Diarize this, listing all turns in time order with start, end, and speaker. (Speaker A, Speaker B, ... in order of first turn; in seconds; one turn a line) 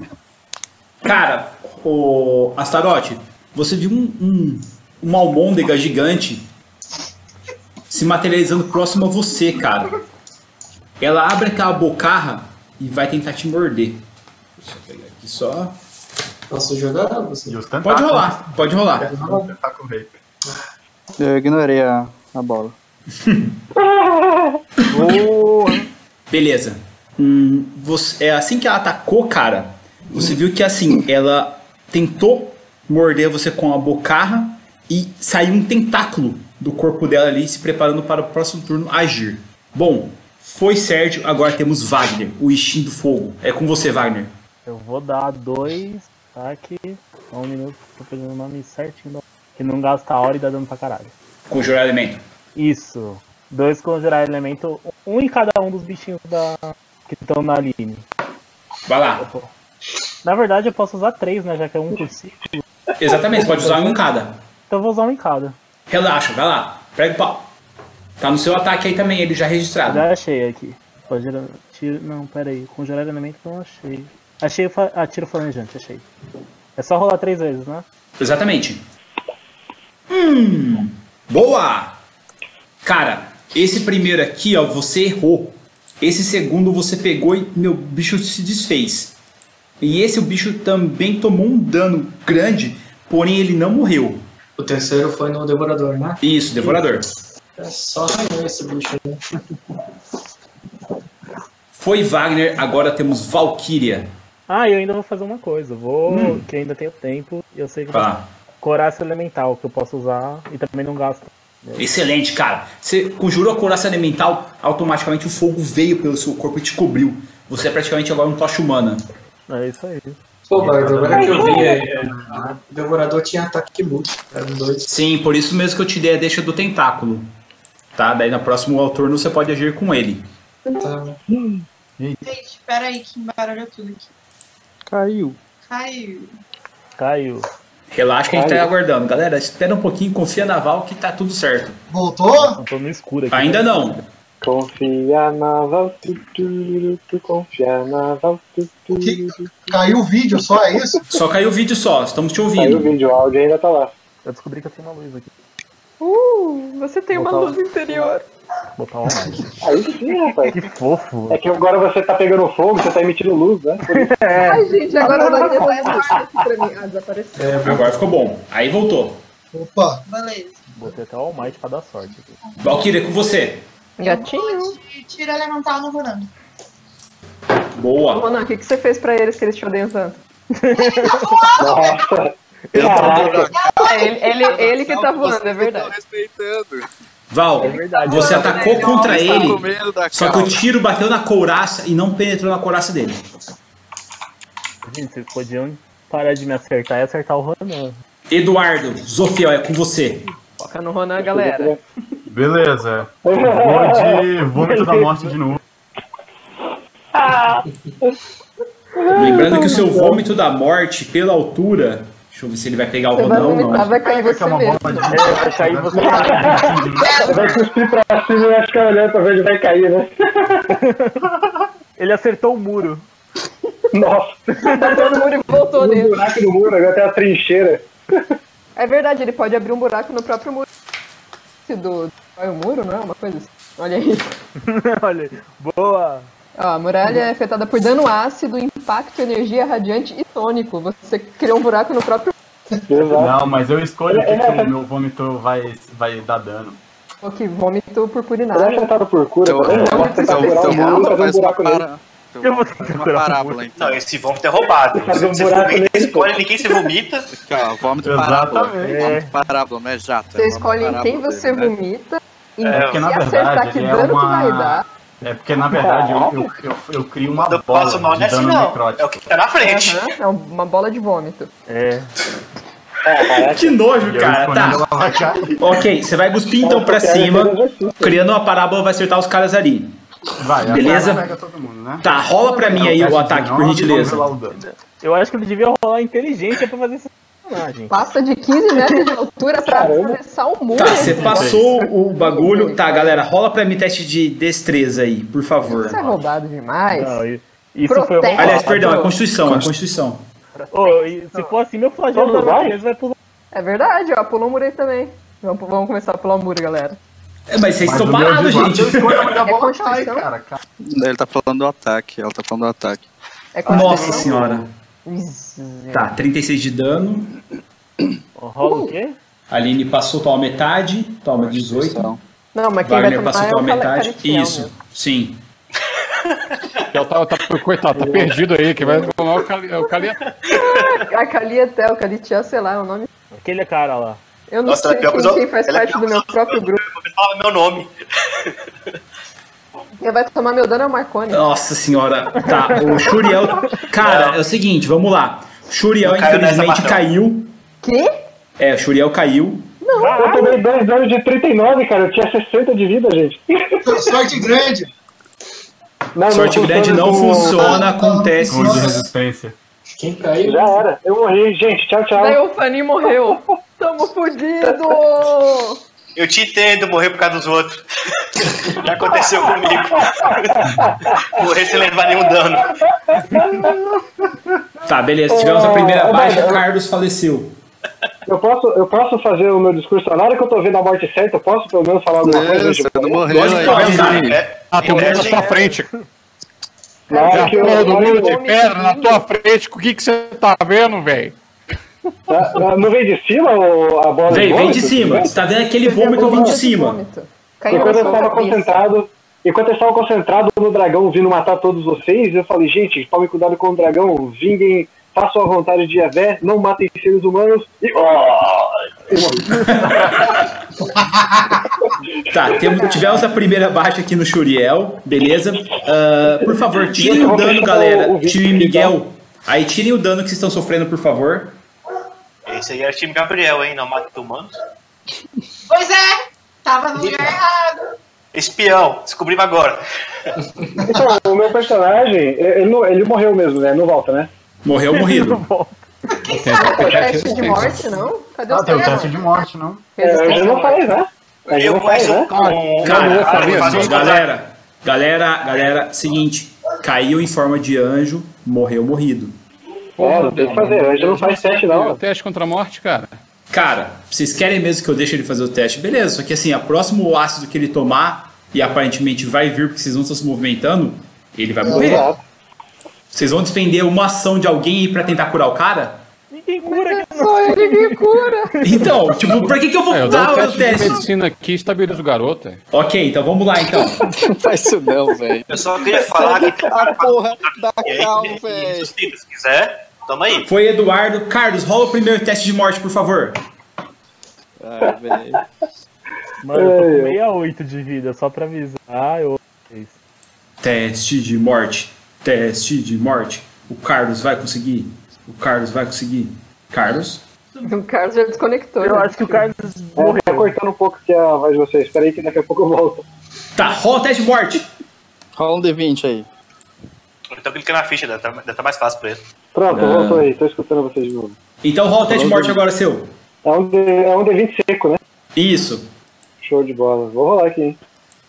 Speaker A: 1.0-6.5
Speaker A: 7.9-9.9
Speaker A: 11.0-14.0
Speaker A: 14.6-15.7
Speaker B: 16.5-17.6
Speaker C: 17.5-20.2
Speaker A: 17.8-19.1
Speaker B: 19.0-19.5
Speaker D: 21.2-22.7
Speaker A: 23.1-23.6
Speaker E: 23.8-24.6
Speaker A: 24.8-25.1
Speaker F: 24.9-25.8
Speaker A: 26.3-44.3
Speaker F: 44.6-51.1
Speaker A: 51.5-52.2
Speaker F: 52.5-58.0
Speaker A: 58.9-59.2
Speaker F: 59.2-59.5
Speaker F: 60.2-62.6
Speaker A: 63.0-64.3
Speaker F: 63.3-64.0
Speaker F: 64.7-65.5
Speaker A: 65.9-67.5
Speaker A: 68.2-70.1
Speaker F: 69.8-76.0
Speaker F: 76.8-77.8
Speaker A: 78.2-78.8
Speaker A: 80.1-82.0
Speaker A: 82.8-89.1
Speaker A: 89.8-94.2
Speaker B: 94.6-96.8
Speaker A: 96.2-97.0
Speaker B: 97.6-99.2
Speaker A: 101.7-104.1
Speaker F: 104.5-111.9
Speaker A: 106.1-106.4
Speaker A: 107.9-108.2
Speaker A: 111.8-119.0
Speaker F: 119.5-120.2
Speaker B: 120.5-124.9
Speaker C: 120.6-122.3
Speaker E: 121.1-121.9
Speaker A: 124.9-127.3
Speaker A: 127.9-130.2
Speaker B: 130.8-131.2
Speaker E: 131.3-131.6
Speaker G: 132.2-134.1
Speaker D: 134.9-135.4
Speaker G: 135.6-136.3
Speaker F: 137.0-137.4
Speaker A: 137.9-141.8
Speaker E: 138.3-138.7
Speaker H: 141.9-142.6
Speaker F: 142.3-144.0
Speaker A: 143.3-144.0
Speaker E: 144.4-149.7
Speaker H: 149.0-151.0
Speaker A: 151.1-152.9
Speaker E: 152.6-153.9
Speaker F: 154.2-155.3
Speaker I: 156.0-158.2
Speaker F: 157.1-158.1
Speaker F: 158.8-159.5
Speaker E: 159.6-160.5
Speaker F: 160.5-161.4
Speaker E: 161.3-164.1
Speaker F: 163.9-165.1
Speaker I: 164.4-167.6
Speaker E: 165.0-166.1
Speaker G: 165.2-166.1
Speaker B: 167.4-167.9
Speaker A: 167.6-169.2
Speaker H: 169.5-170.0
Speaker G: 170.0-170.6
Speaker F: 170.7-172.3
Speaker A: 172.6-173.6
Speaker I: 174.0-174.8
Speaker G: 174.0-176.3
Speaker A: 177.8-178.3
Speaker I: 178.1-180.2
Speaker F: 180.6-181.5
Speaker G: 181.0-182.1
Speaker E: 181.6-183.4
Speaker D: 182.7-186.9
Speaker F: 182.8-183.2
Speaker G: 183.5-184.1
Speaker I: 183.6-185.9
Speaker A: 187.3-193.2
Speaker F: 187.6-188.8
Speaker G: 187.6-189.5
Speaker D: 188.2-190.6
Speaker F: 194.8-198.0
Speaker A: 198.3-200.2
Speaker I: 200.6-201.7
Speaker E: 201.3-201.8
Speaker C: 202.3-205.6
Speaker E: 203.2-204.2
Speaker F: 204.6-205.4
Speaker E: 207.1-208.1
Speaker E: 209.0-210.2
Speaker A: 209.1-214.0
Speaker I: 213.1-215.4
Speaker C: 214.0-217.6
Speaker F: 215.1-217.4
Speaker E: 216.0-216.6
Speaker G: 217.0-217.3
Speaker E: 217.2-220.7
Speaker F: 220.7-221.2
Speaker F: 222.0-223.1
Speaker E: 223.9-228.2
Speaker I: 224.6-226.3
Speaker F: 224.7-224.9
Speaker I: 228.8-230.7
Speaker I: 231.7-234.3
Speaker F: 234.6-236.3
Speaker I: 236.6-242.3
Speaker E: 242.9-243.4
Speaker C: 243.1-246.8
Speaker E: 244.1-244.7
Speaker I: 247.2-248.8
Speaker E: 248.5-251.8
Speaker D: 249.4-254.0
Speaker I: 249.7-251.1
Speaker F: 252.4-253.6
Speaker J: 253.7-257.3
Speaker E: 254.9-256.8
Speaker D: 257.4-261.7
Speaker C: 258.0-259.1
Speaker F: 258.8-259.4
Speaker I: 260.3-264.8
Speaker C: 262.6-269.2
Speaker J: 262.7-263.0
Speaker E: 265.7-266.5
Speaker J: 267.4-270.1
Speaker I: 269.6-271.5
Speaker F: 271.7-272.1
Speaker E: 273.0-273.8
Speaker A: 273.4-274.9
Speaker C: 274.0-275.8
Speaker A: 275.6-279.9
Speaker E: 276.6-278.2
Speaker C: 280.4-282.1
Speaker A: 280.6-281.3
Speaker A: 282.0-284.3
Speaker I: 282.5-283.0
Speaker C: 282.6-284.6
Speaker F: 284.5-287.9
Speaker I: 287.9-293.2
Speaker E: 289.7-290.2
Speaker A: 290.7-296.0
Speaker C: 290.8-291.8
Speaker I: 295.8-297.2
Speaker F: 296.9-299.1
Speaker I: 297.9-299.1
Speaker A: 298.4-300.2
Speaker F: 300.6-303.2
Speaker E: 302.1-302.8
Speaker I: 303.5-307.0
Speaker A: 307.5-309.4
Speaker C: 307.8-310.6
Speaker I: 309.4-310.3
Speaker D: 310.9-313.1
Speaker I: 313.5-314.3
Speaker A: 313.6-314.7
Speaker I: 315.0-316.1
Speaker A: 315.9-317.3
Speaker F: 318.4-319.2
Speaker A: 319.5-322.1
Speaker D: 321.3-322.2
Speaker I: 322.5-324.7
Speaker A: 322.8-325.4
Speaker K: 326.9-330.3
Speaker E: 328.0-329.1
Speaker I: 330.5-333.1
Speaker J: 330.5-330.8
Speaker F: 333.3-334.2
Speaker I: 334.5-336.8
Speaker J: 334.6-337.9
Speaker I: 340.0-341.5
Speaker A: 341.3-347.5
Speaker J: 344.0-344.4
Speaker J: 346.0-347.0
Speaker I: 347.8-348.1
Speaker A: 348.6-349.7
Speaker I: 349.8-350.6
Speaker F: 349.9-350.5
Speaker E: 350.1-354.1
Speaker H: 353.8-354.9
Speaker E: 356.1-357.8
Speaker A: 356.3-359.0
Speaker H: 357.4-359.0
Speaker C: 358.5-359.5
Speaker B: 360.0-360.8
Speaker E: 360.4-362.4
Speaker I: 362.1-365.8
Speaker J: 366.1-367.8
Speaker J: 368.5-372.7
Speaker E: 369.7-371.4
Speaker E: 373.1-373.7
Speaker A: 374.9-377.5
Speaker E: 375.3-376.6
Speaker E: 378.2-383.3
Speaker D: 382.2-384.4
Speaker J: 383.3-385.5
Speaker A: 383.3-384.3
Speaker K: 383.7-384.1
Speaker K: 384.7-385.9
Speaker F: 384.9-386.0
Speaker I: 387.1-389.2
Speaker E: 387.1-388.3
Speaker K: 387.2-391.4
Speaker E: 392.3-395.3
Speaker A: 394.3-397.0
Speaker I: 395.8-398.8
Speaker E: 396.0-396.6
Speaker E: 397.7-409.6
Speaker A: 409.6-410.5
Speaker A: 412.3-421.5
Speaker E: 416.9-418.9
Speaker J: 422.4-424.5
Speaker G: 425.7-427.8
Speaker J: 428.3-430.3
Speaker E: 430.8-434.3
Speaker A: 434.6-435.4
Speaker F: 434.9-435.8
Speaker K: 436.3-437.9
Speaker I: 436.5-439.2
Speaker C: 438.5-439.9
Speaker I: 440.0-440.9
Speaker E: 440.0-442.3
Speaker J: 441.5-444.3
Speaker K: 442.3-444.1
Speaker A: 442.8-449.3
Speaker E: 443.3-443.6
Speaker K: 450.0-453.1
Speaker E: 450.0-452.0
Speaker F: 450.4-450.7
Speaker A: 453.5-462.1
Speaker E: 461.6-462.2
Speaker A: 463.1-466.0
Speaker F: 466.3-469.2
Speaker I: 466.7-468.6
Speaker A: 468.6-471.1
Speaker K: 469.9-472.6
Speaker A: 472.7-474.0
Speaker D: 474.1-478.9
Speaker J: 475.5-480.5
Speaker A: 480.4-483.4
Speaker D: 484.6-485.4
Speaker E: 484.8-485.4
Speaker F: 486.4-490.0
Speaker E: 486.5-487.1
Speaker A: 490.6-497.2
Speaker I: 497.6-499.4
Speaker F: 498.8-500.5
Speaker E: 500.0-503.0
Speaker A: 503.6-504.6
Speaker D: 505.4-506.3
Speaker J: 507.3-509.2
Speaker E: 509.5-511.4
Speaker A: 509.7-510.3
Speaker A: 511.6-513.1
Speaker D: 512.0-512.6
Speaker E: 513.4-515.0
Speaker A: 515.4-515.9
Speaker E: 516.4-517.8